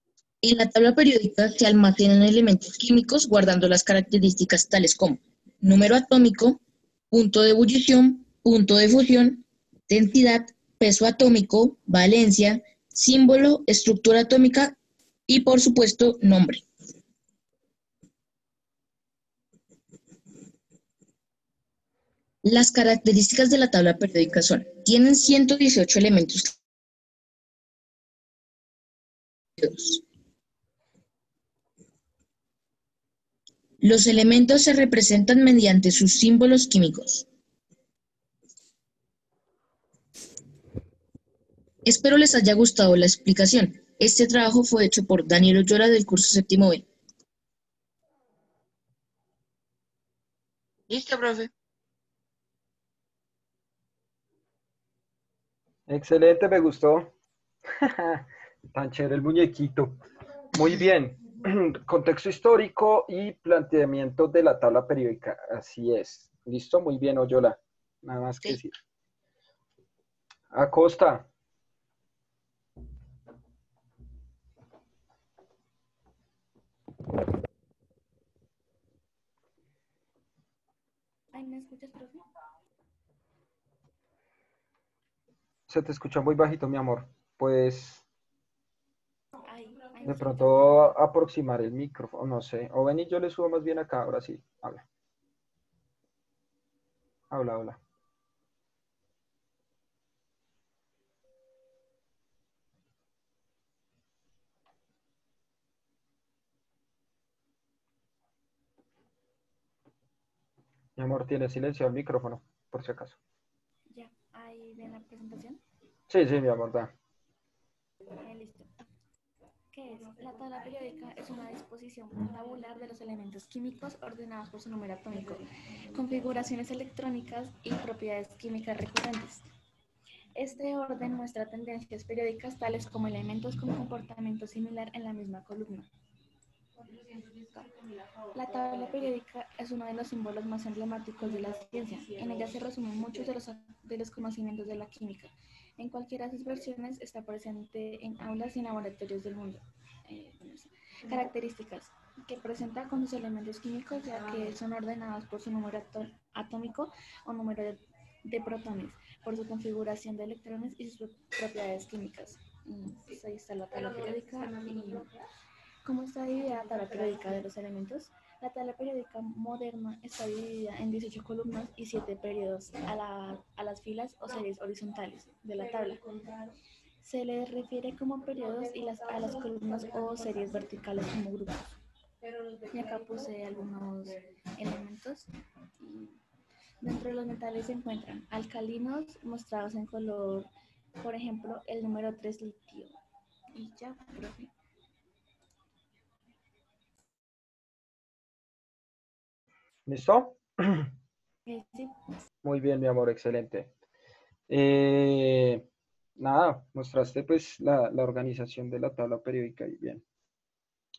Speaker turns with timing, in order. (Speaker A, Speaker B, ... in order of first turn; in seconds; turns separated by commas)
Speaker A: 0.4-6.6, Speaker A: 7.1-14.8, Speaker A: 15.3-16.6, Speaker A: 22.4-26.5, Speaker A: 29.6-30.0, Speaker A: 33.8-37.2, Speaker A: 41.8-46.9, Speaker A: 50.9-51.5, Speaker B: 55.9-57.1, Speaker B: 57.8-60.0, Speaker B: 60.5-68.7, Speaker B: 70.5-71.3, Speaker C: 81.3-82.2, Speaker B: 85.7-88.0, Speaker C: 89.4-91.0, Speaker B: 90.0-94.8, Speaker B: 97.3-97.8, Speaker B: 111.0-113.2, Speaker C: 113.9-115.6, Speaker B: 116.1-116.9, Speaker C: 118.2-118.7, Speaker C: 119.7-129.5, Speaker C: 130.3-135.9, Speaker C: 138.3-165.1, Speaker C: 165.8-176.0, Speaker C: 177.0-181.7, Speaker C: 182.7-185.3, Speaker C: 185.8-186.2, Speaker C: 186.8-190.5, Speaker C: 191.0-192.9, Speaker C: 193.5-194.5, Speaker B: 199.9-200.9, Speaker C: 201.4-201.9, Speaker B: 202.4-203.7, Speaker B: 204.5-205.6, Speaker B: 206.2-210.0